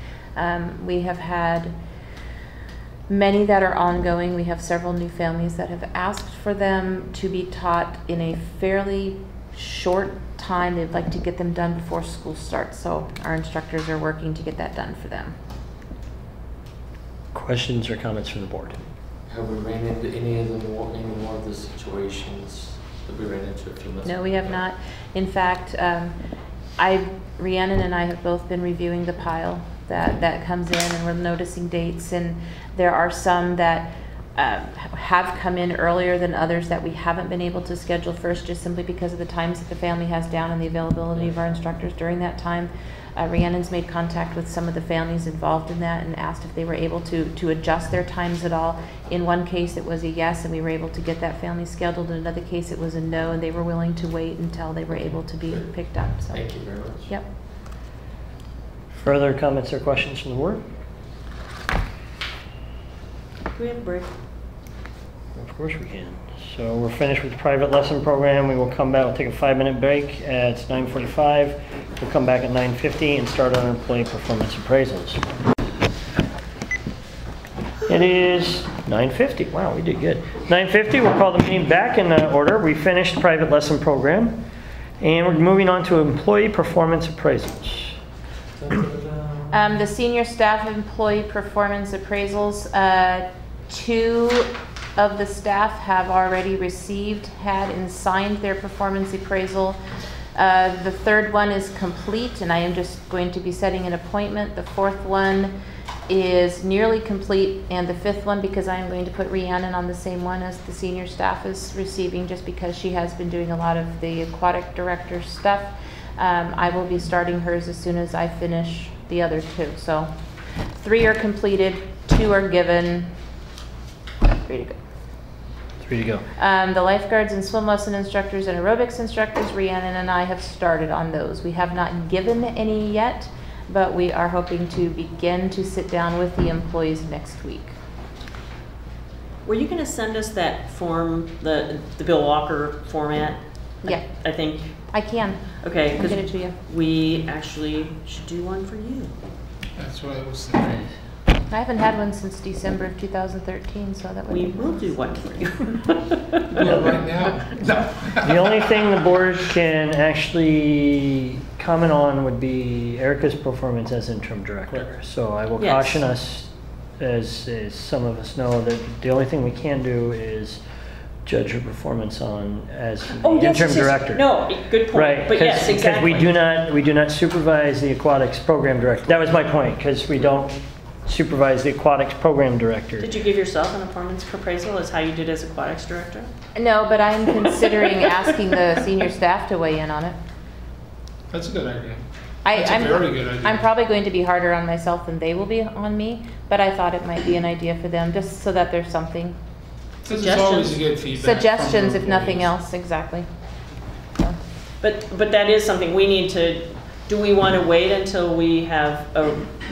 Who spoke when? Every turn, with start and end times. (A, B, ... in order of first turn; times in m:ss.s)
0:00.4-0:01.7 A
0:03.1-0:15.4 A
0:17.3-0:18.8 B
0:19.3-0:24.5 C
0:24.0-0:26.1 A
0:26.8-0:57.2 A
0:55.0-0:57.1 C
0:58.9-1:00.6 B
1:03.5-1:04.1 D
1:05.3-1:15.2 B
1:17.9-1:24.4 B
1:25.0-1:27.9 B
1:28.6-1:29.6 C
1:29.5-1:39.8 A
1:40.3-1:45.5 A
1:46.1-2:00.1 A
2:00.8-2:03.1 A
2:04.4-2:04.8 A
2:05.8-2:06.2 B
2:06.4-2:17.7 A
2:19.4-2:25.1 D
2:24.9-2:26.6 A
2:25.6-2:29.1 D
2:29.8-2:30.8 E
2:31.5-2:35.2 A
2:34.3-2:36.2 D
2:36.5-2:38.6 E
2:38.2-2:50.6 B
2:45.6-2:46.0 D
2:51.2-2:54.2 B
2:53.1-2:56.3 D
2:54.9-3:03.1 B
3:03.0-3:06.3 D
3:06.5-3:10.2 A
3:11.3-3:13.7 E
3:12.4-3:19.4 A
3:20.0-3:20.8 D
3:20.0-3:22.5 E
3:21.2-3:23.3 A
3:24.8-3:29.5 D